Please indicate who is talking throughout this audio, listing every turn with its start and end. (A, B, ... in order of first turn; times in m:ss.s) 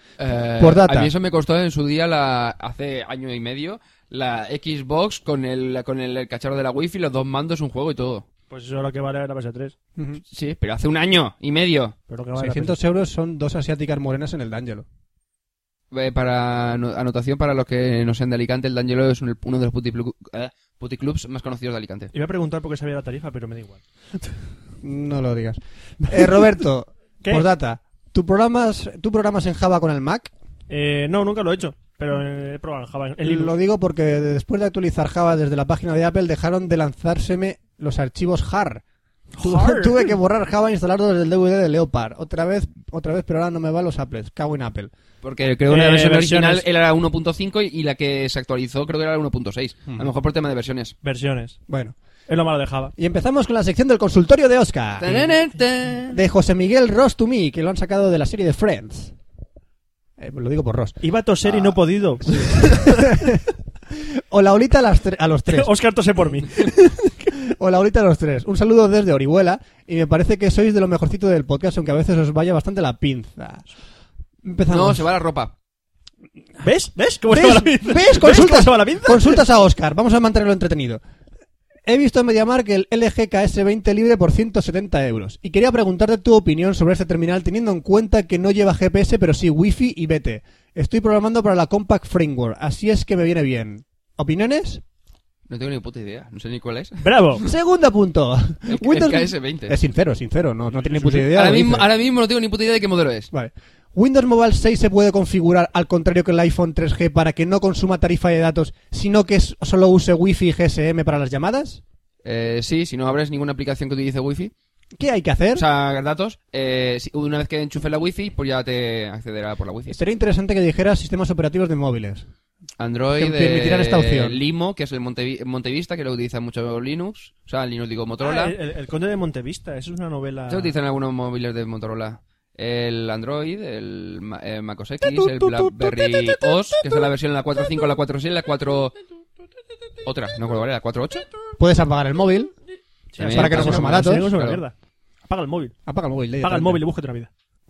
0:00.2-0:08.3 A
0:00.6-0:01.1 B
0:08.5-0:09.7 C
0:10.3-0:12.0 A
0:12.1-0:12.8 C
0:12.4-0:14.8 B
0:15.9-0:22.1 A
0:22.1-0:24.4 C
0:24.8-0:30.3 B
0:30.7-0:33.6 C
0:33.2-0:38.8 B
0:39.4-0:40.1 C
0:39.4-0:44.9 B
0:45.2-0:51.0 A
0:45.7-0:46.6 C
0:51.0-0:51.6 C
0:51.7-0:52.0 B
0:52.3-0:52.9 C
0:53.0-0:55.3 B
0:55.0-0:56.2 A
0:56.1-0:59.1 B
1:00.2-1:01.8 B
1:01.0-1:03.3 C
1:02.3-1:03.4 B
1:04.2-1:05.7 B
1:05.5-1:07.4 C
1:07.5-1:13.6 B
1:14.4-1:15.1 B
1:14.7-1:15.5 A
1:16.6-1:19.4 C
1:17.3-1:21.0 B
1:21.8-1:34.8 B
1:35.5-1:37.2 A
1:37.0-1:37.4 C
1:37.5-1:41.9 B
1:38.7-1:39.8 A
1:41.0-1:43.3 A
1:43.3-1:51.8 B
1:52.2-1:54.5 A
1:55.0-1:55.6 B
1:55.6-2:00.0 A
1:59.9-2:02.3 B
2:02.8-2:08.6 A
2:03.2-2:04.4 B
2:08.2-2:10.8 C
2:10.5-2:18.9 A
2:15.0-2:16.4 B
2:20.0-2:21.3 A
2:21.6-2:22.5 B
2:23.1-2:24.7 C
2:23.2-2:24.6 A
2:23.3-2:24.3 B
2:25.3-2:25.8 C
2:25.9-2:26.8 B
2:26.4-2:27.3 C